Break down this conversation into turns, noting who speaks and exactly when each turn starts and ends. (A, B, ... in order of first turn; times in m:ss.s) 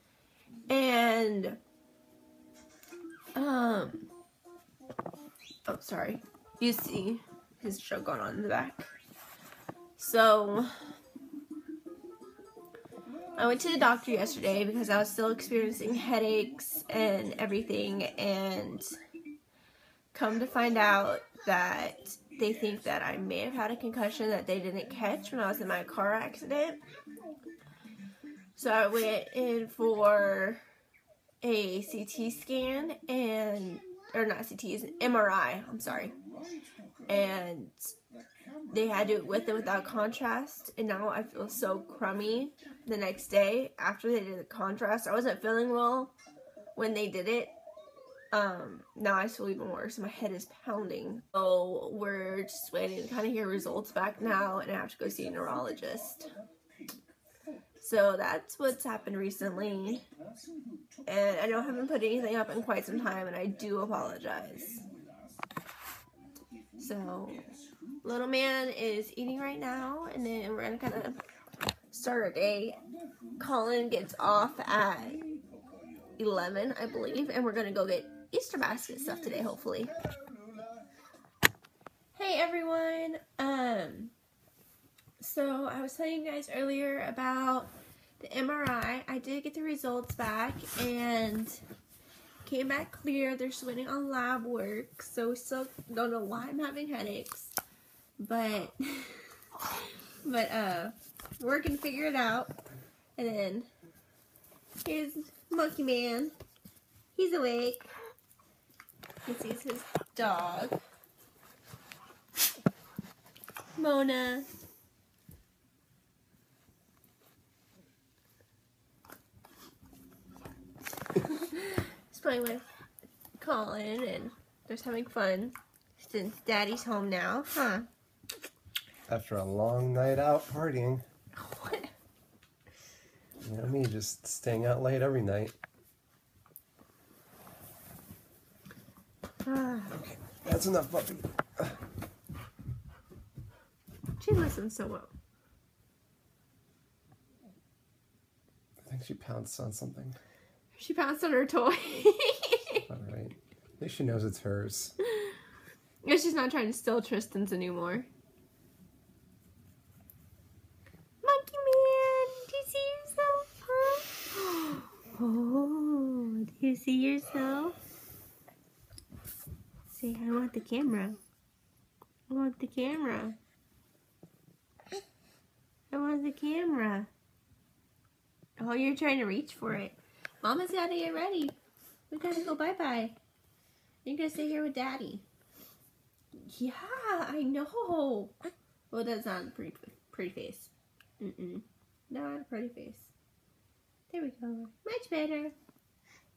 0:00.7-0:01.6 A
0:03.3-0:04.1 A
0:05.6-0:08.9 A
0:10.0-0:10.7 A
0:13.4-0:19.0 A
0:20.1-0:26.8 A
0:28.6-0:30.6 A
0:31.4-0:36.2 A
0:37.1-0:37.9 A
0:38.7-0:46.1 A
0:46.8-0:47.5 A
0:48.3-0:56.3 A
0:57.8-1:00.0 A
1:01.0-1:04.8 A
1:06.8-1:07.5 A
1:08.0-1:11.2 A
1:11.9-1:12.8 A
1:13.4-1:15.2 A
1:16.2-1:19.9 A
1:22.1-1:24.1 A
1:25.2-1:31.6 A
1:32.4-1:37.5 A
1:38.2-1:39.3 A
1:40.2-1:42.5 A
1:43.2-1:43.7 A
1:44.8-1:46.3 A
1:47.1-1:47.9 A
1:49.2-1:50.8 A
1:53.7-1:54.5 A
2:01.2-2:02.6 A
2:03.4-2:07.9 A
2:09.1-2:11.0 B
2:11.3-2:11.9 A
2:13.4-2:15.6 B
2:19.4-2:20.0 A
2:19.9-2:21.8 B
2:24.2-2:25.1 A
2:28.8-2:30.2 B
2:30.8-2:32.8 A
2:32.9-2:34.9 B
2:35.0-2:35.4 A
2:36.0-2:38.1 A
2:41.2-2:47.8 A
2:49.9-2:51.2 A
2:52.3-2:53.4 A
2:55.9-2:57.1 A
2:58.6-3:01.6 A
3:02.1-3:03.2 A
3:04.0-3:05.2 A
3:06.3-3:08.4 A
3:08.9-3:13.1 A
3:14.1-3:15.5 A